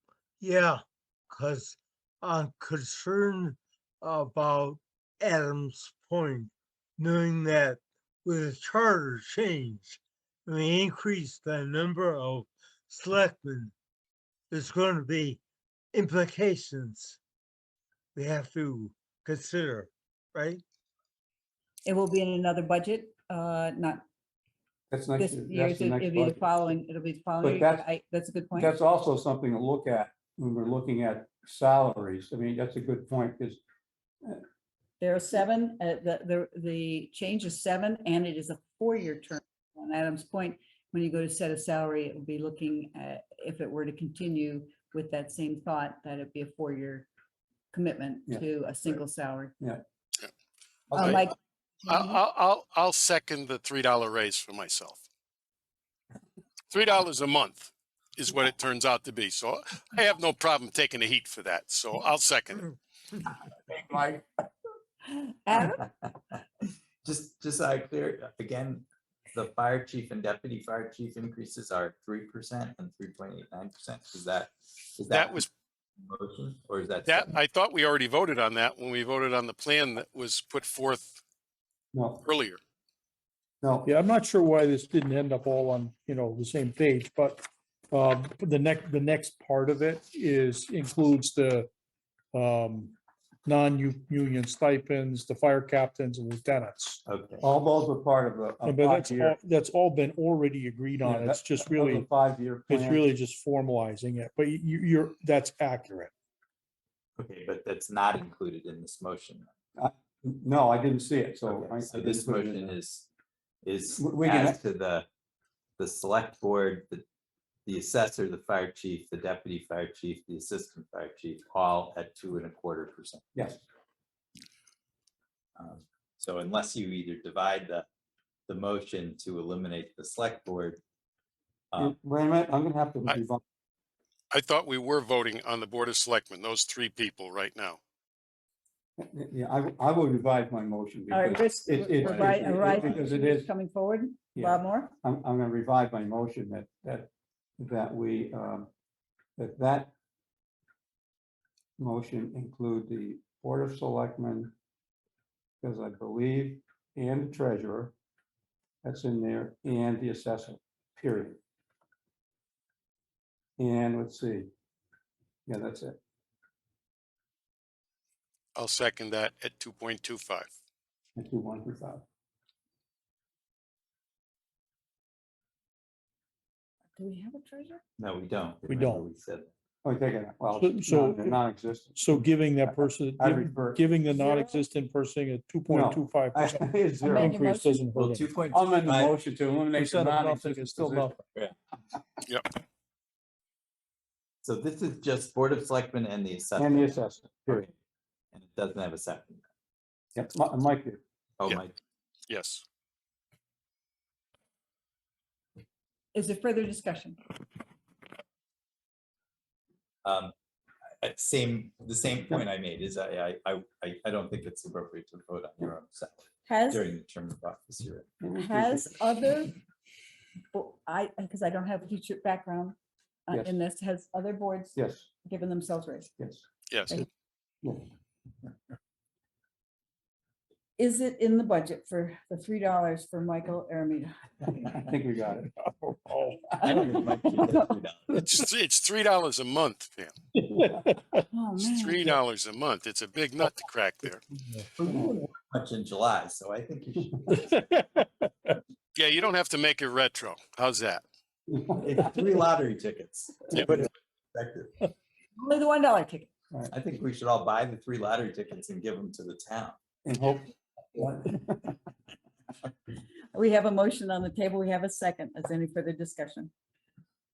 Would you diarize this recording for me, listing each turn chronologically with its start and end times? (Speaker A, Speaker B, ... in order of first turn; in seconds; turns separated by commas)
Speaker A: 0.4-13.7, Speaker A: 14.5-15.4, Speaker A: 15.9-17.2, Speaker A: 18.1-20.6, Speaker B: 21.9-24.0, Speaker C: 24.9-26.4, Speaker B: 25.2-28.8, Speaker C: 27.4-27.9, Speaker C: 28.6-33.6, Speaker B: 35.0-47.1, Speaker B: 47.7-49.6, Speaker C: 48.3-49.0, Speaker C: 50.9-51.2, Speaker B: 50.9-51.3, Speaker B: 51.9-52.2, Speaker D: 51.9-55.0, Speaker D: 56.7-62.8, Speaker E: 63.7-64.2, Speaker B: 65.1-65.9, Speaker E: 66.0-66.4, Speaker E: 67.0-75.4, Speaker D: 75.1-75.5, Speaker E: 76.0-77.4, Speaker D: 77.0-81.2, Speaker C: 81.9-82.2, Speaker D: 82.2-82.6, Speaker C: 83.6-83.9, Speaker F: 83.9-91.7, Speaker F: 92.3-97.0, Speaker E: 97.1-97.4, Speaker C: 97.4-99.4, Speaker F: 98.6-102.1, Speaker C: 101.0-103.1, Speaker F: 102.7-106.1, Speaker E: 107.2-109.5, Speaker C: 109.8-112.8, Speaker E: 111.5-113.1, Speaker E: 113.6-115.1, Speaker C: 114.0-114.6, Speaker E: 115.8-117.0, Speaker E: 117.7-123.2, Speaker C: 123.3-123.6, Speaker E: 125.6-127.9, Speaker E: 128.5-130.8, Speaker C: 131.8-133.4, Speaker D: 134.3-137.8, Speaker C: 139.0-143.5, Speaker B: 141.1-144.9, Speaker D: 142.0-142.5, Speaker C: 144.3-148.7, Speaker C: 149.4-149.9, Speaker C: 151.8-154.5, Speaker C: 155.6-157.9, Speaker C: 158.8-161.4, Speaker C: 163.6-164.5, Speaker C: 165.5-166.0, Speaker D: 168.6-170.5, Speaker C: 171.2-172.0, Speaker B: 176.9-177.8, Speaker E: 178.0-179.5, Speaker F: 178.7-179.0, Speaker C: 179.8-183.9, Speaker F: 180.6-181.4, Speaker F: 182.0-188.3, Speaker B: 184.1-184.7, Speaker C: 185.7-187.3, Speaker B: 187.0-187.8, Speaker E: 187.9-189.2, Speaker C: 188.5-191.2, Speaker F: 189.7-191.2, Speaker E: 194.4-197.7, Speaker C: 196.6-197.7, Speaker E: 198.3-199.4, Speaker C: 200.2-201.0, Speaker E: 201.4-201.8, Speaker D: 202.3-202.6, Speaker B: 206.1-207.2, Speaker E: 210.1-210.3, Speaker E: 211.0-218.1, Speaker B: 216.5-216.9, Speaker C: 218.2-218.9, Speaker B: 218.3-219.6, Speaker B: 220.5-222.8, Speaker B: 223.3-226.1, Speaker C: 224.8-225.1, Speaker C: 226.2-226.4, Speaker D: 226.7-227.0, Speaker B: 230.8-234.6, Speaker C: 234.7-235.5, Speaker F: 235.4-237.0, Speaker E: 236.6-238.1, Speaker B: 236.6-237.8, Speaker D: 238.2-240.1, Speaker F: 240.4-241.3, Speaker B: 241.3-242.2, Speaker D: 241.6-244.2, Speaker E: 244.8-247.4, Speaker C: 244.8-245.1, Speaker F: 247.3-248.6, Speaker D: 248.9-251.0, Speaker C: 251.5-251.9, Speaker E: 251.8-254.7, Speaker B: 255.4-256.3, Speaker E: 256.7-259.8, Speaker C: 260.1-261.8, Speaker B: 263.3-266.5